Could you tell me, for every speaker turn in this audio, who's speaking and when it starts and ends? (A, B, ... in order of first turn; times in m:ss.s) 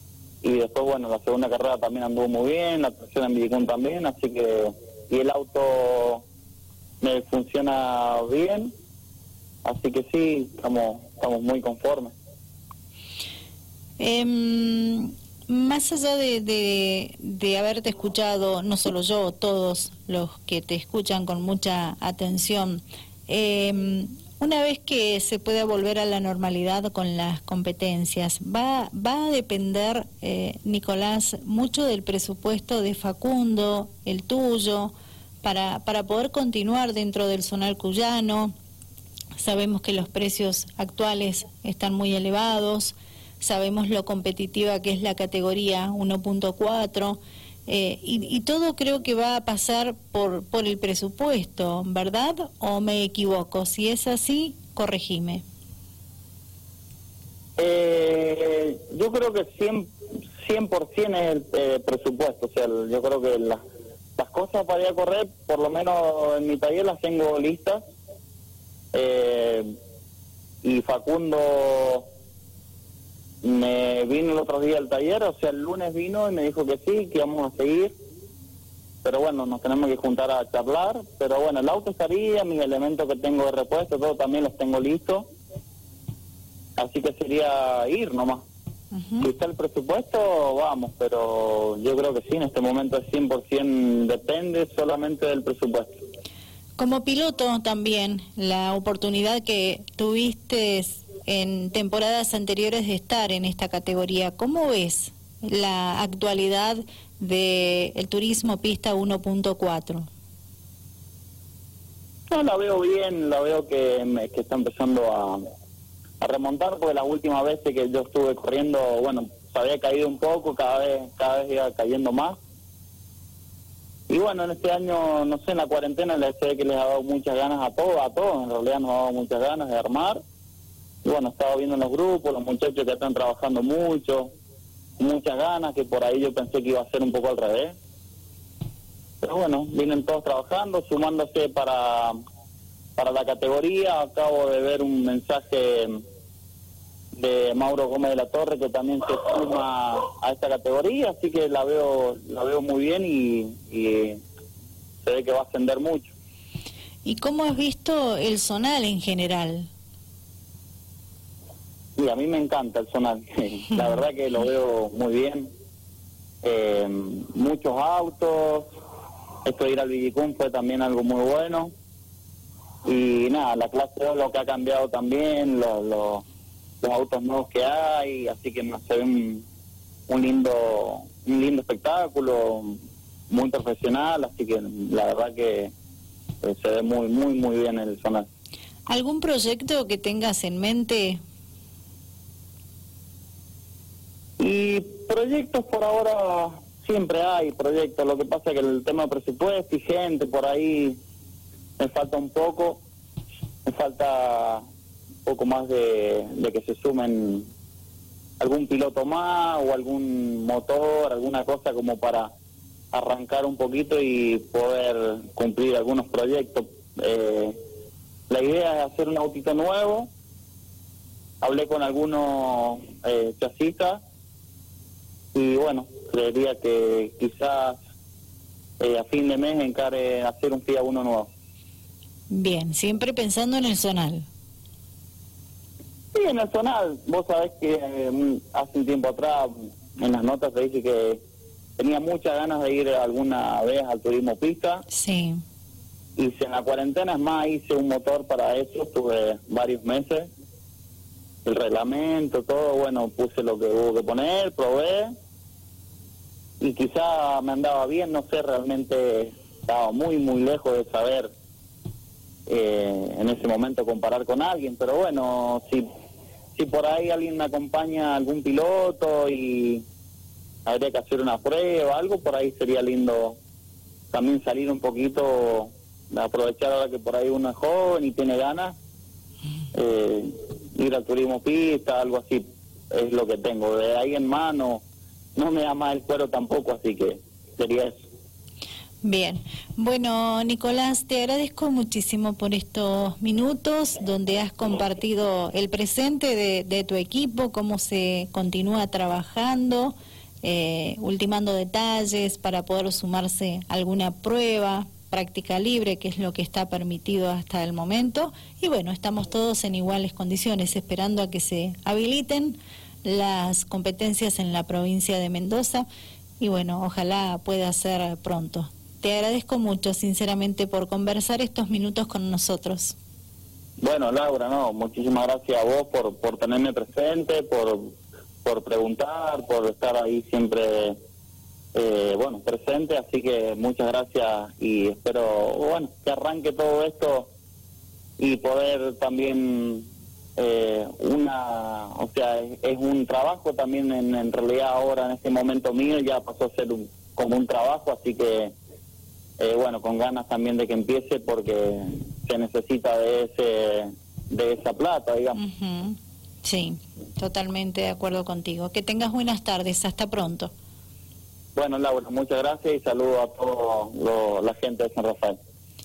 0:00.4-0:06.2 A
0:07.0-0:08.7 A
0:09.6-0:12.1 A
0:14.0-0:38.5 B
0:39.4-0:55.4 B
0:57.6-1:03.6 A
1:04.2-1:07.8 A
1:08.9-1:09.7 A
1:10.6-1:12.1 A
1:13.4-1:17.9 A
1:19.0-1:25.3 A
1:26.8-1:28.4 A
1:28.9-1:29.3 B
1:29.2-1:35.9 A
1:36.8-1:50.1 B
1:52.3-1:55.4 A
1:56.2-2:02.4 A
2:04.1-2:10.2 A
2:11.0-2:14.3 A
2:15.0-2:17.8 A
2:19.2-2:22.2 A
2:23.0-2:26.0 A
2:27.2-2:34.2 A
2:35.0-2:36.1 A
2:37.0-2:39.7 B
2:42.0-2:45.5 A
2:46.4-2:48.7 A
2:49.4-2:51.7 A
2:52.8-2:56.2 A
2:56.8-2:59.4 A
3:00.1-3:02.8 A
3:03.3-3:05.7 A
3:06.4-3:08.3 A
3:08.9-3:11.2 B
3:14.4-3:21.0 A
3:21.8-3:22.8 A
3:23.6-3:24.6 A
3:25.2-3:27.5 A
3:28.4-3:32.3 A
3:32.9-3:37.6 A
3:38.3-3:40.1 A
3:41.4-3:44.0 A
3:45.3-3:47.8 A
3:48.8-3:51.3 A
3:52.3-3:54.2 B
3:56.1-4:01.2 A
4:01.8-4:04.8 A
4:04.9-4:05.4 B
4:06.2-4:10.3 A
4:11.4-4:15.1 A
4:16.6-4:21.3 A
4:22.5-4:25.8 A
4:26.5-4:29.8 A
4:30.6-4:33.4 A
4:34.1-4:38.8 A
4:39.7-4:44.8 A
4:45.4-4:48.0 A
4:49.0-5:15.8 B
5:16.4-5:23.0 B
5:23.8-5:31.0 A
5:31.7-5:37.3 A
5:38.2-5:48.5 A
5:49.4-5:55.4 A
5:55.3-6:00.5 B
6:01.6-6:05.4 A